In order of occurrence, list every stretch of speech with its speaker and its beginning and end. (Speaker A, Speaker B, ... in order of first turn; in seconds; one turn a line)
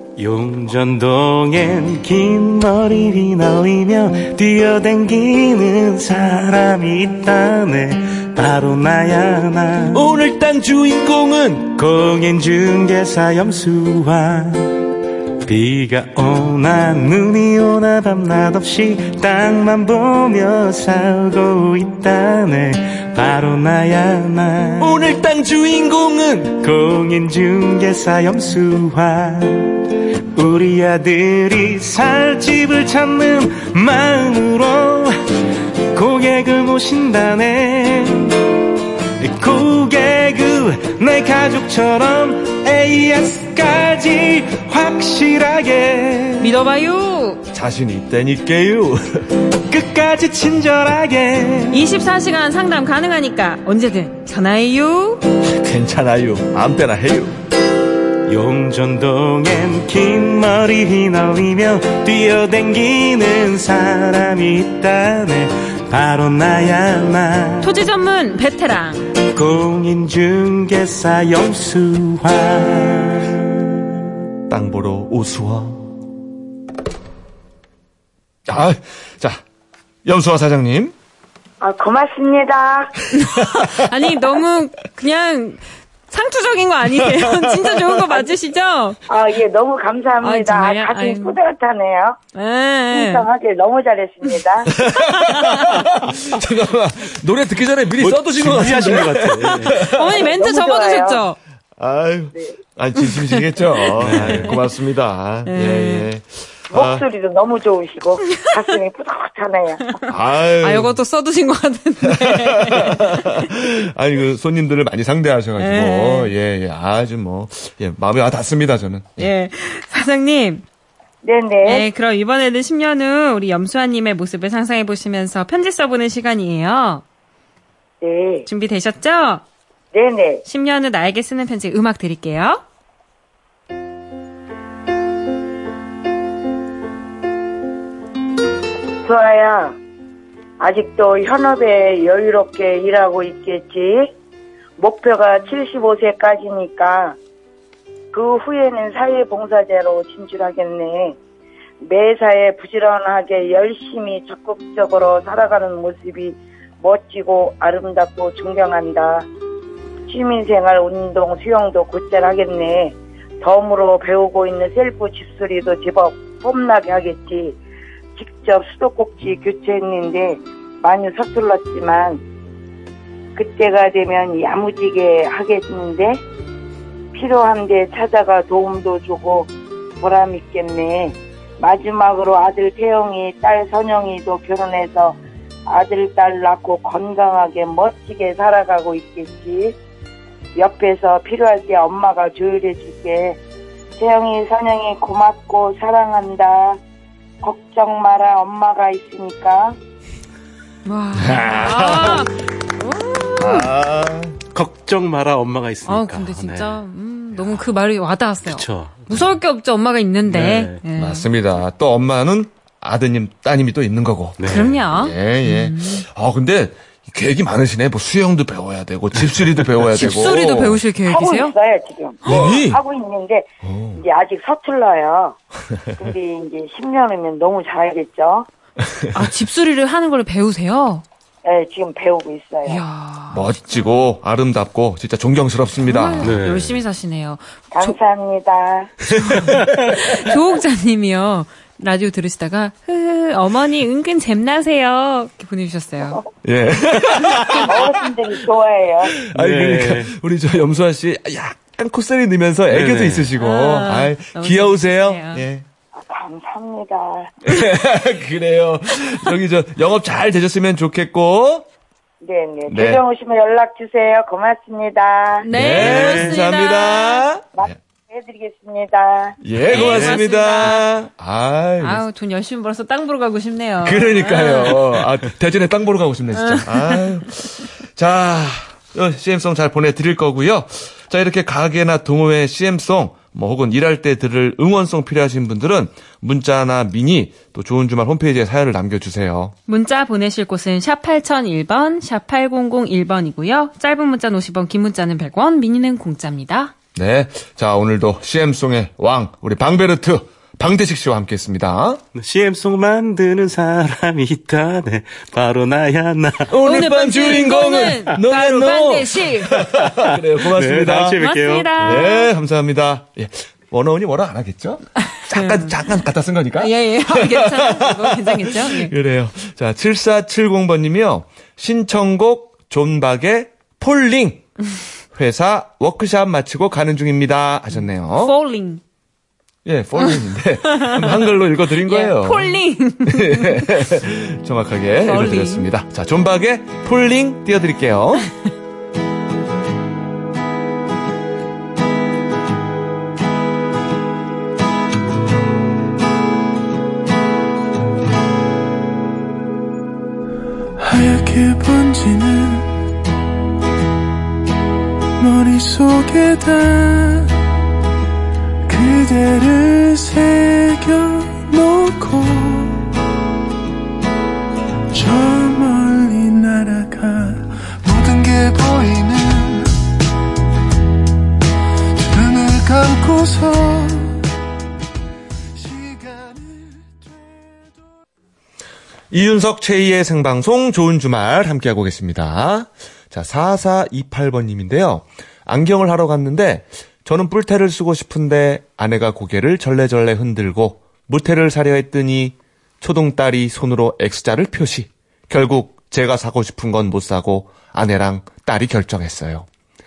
Speaker A: 0.2-10.1
Speaker B: 9.9-11.7
Speaker A: 11.7-14.8
Speaker A: 15.4-25.0
Speaker B: 24.8-26.6
Speaker A: 26.6-35.2
Speaker A: 35.9-38.4
Speaker A: 39.2-46.5
Speaker C: 46.4-47.4
Speaker B: 47.5-49.3
Speaker A: 49.7-51.8
Speaker C: 51.7-55.2
Speaker B: 55.4-57.4
Speaker A: 58.3-67.7
Speaker C: 67.6-69.1
Speaker A: 69.3-73.5
Speaker B: 74.5-75.9
Speaker B: 78.5-79.4
Speaker B: 80.0-80.9
Speaker D: 81.6-83.0
Speaker C: 83.1-89.0
Speaker B: 83.3-84.1
Speaker B: 87.0-87.8
Speaker D: 89.1-92.2
Speaker C: 90.2-91.4
Speaker C: 92.3-93.2
Speaker D: 92.9-94.8
Speaker B: 94.7-100.3
Speaker C: 95.0-95.8
Speaker A: 98.0-99.8
Speaker C: 99.7-101.4
Speaker D: 100.2-101.2
Speaker B: 101.8-107.0
Speaker C: 103.0-104.6
Speaker A: 104.0-104.6
Speaker C: 105.5-106.1
Speaker D: 106.7-110.0
Speaker B: 110.1-111.0
Speaker C: 110.5-113.5
Speaker B: 112.1-119.3
Speaker C: 115.6-116.3
Speaker C: 119.2-120.6
Speaker D: 121.2-121.9
Speaker C: 121.6-127.0
Speaker D: 128.0-128.5
Speaker C: 128.4-129.4
Speaker D: 129.9-130.4
Speaker C: 130.4-132.6
Speaker D: 139.0-139.8
Speaker D: 140.6-144.1
Speaker D: 144.8-147.2
Speaker D: 148.1-151.2
Speaker D: 151.8-159.3
Speaker D: 160.1-167.6
Speaker D: 168.2-172.2
Speaker D: 173.3-176.2
Speaker D: 177.1-189.8
Speaker D: 190.6-193.4
Speaker D: 194.0-196.8
Speaker D: 197.4-199.8
Speaker C: 200.8-203.7
Speaker B: 201.2-202.3
Speaker B: 203.4-204.4
Speaker A: 204.5-206.8
Speaker C: 205.9-211.3
Speaker A: 208.4-209.3
Speaker A: 210.3-210.8
Speaker B: 210.9-220.8
Speaker A: 214.4-214.8
Speaker C: 214.4-216.1
Speaker C: 219.9-221.5
Speaker D: 221.1-225.4
Speaker B: 222.2-222.8
Speaker B: 223.6-224.0
Speaker D: 225.9-228.5
Speaker B: 228.8-229.1
Speaker C: 229.1-231.0
Speaker D: 231.4-232.8
Speaker C: 232.7-233.8
Speaker B: 233.3-236.3
Speaker C: 235.9-238.0
Speaker A: 236.2-236.8
Speaker D: 237.7-238.9
Speaker B: 239.1-239.7
Speaker C: 239.1-246.2
Speaker B: 246.4-248.0
Speaker C: 247.3-247.7
Speaker D: 247.7-249.1
Speaker B: 249.1-255.6
Speaker A: 249.3-250.1
Speaker A: 252.7-253.3
Speaker C: 253.4-255.4
Speaker D: 255.9-257.4
Speaker B: 257.4-261.6
Speaker D: 262.2-265.5
Speaker B: 262.7-263.0
Speaker C: 265.4-267.2
Speaker B: 265.5-267.6
Speaker A: 265.7-266.4
Speaker D: 267.6-269.4
Speaker B: 269.4-272.0
Speaker C: 269.7-270.9
Speaker A: 269.7-270.2
Speaker C: 271.8-274.9
Speaker B: 273.8-289.5
Speaker C: 276.3-277.1
Speaker C: 289.7-296.7
Speaker B: 296.9-302.0
Speaker A: 302.1-306.5
Speaker B: 306.4-311.2
Speaker C: 306.6-309.6
Speaker A: 309.8-312.1
Speaker C: 311.2-312.3
Speaker B: 311.8-324.5
Speaker C: 315.1-315.8
Speaker C: 316.6-318.9
Speaker B: 325.1-328.3
Speaker C: 328.2-328.8
Speaker B: 329.6-338.3
Speaker C: 330.7-331.3
Speaker C: 331.8-333.7
Speaker C: 335.0-335.7
Speaker E: 350.8-352.6
Speaker E: 355.2-357.2
Speaker E: 358.7-362.7
Speaker E: 364.9-369.7
Speaker E: 372.0-374.2
Speaker E: 375.6-377.1
Speaker B: 379.1-399.5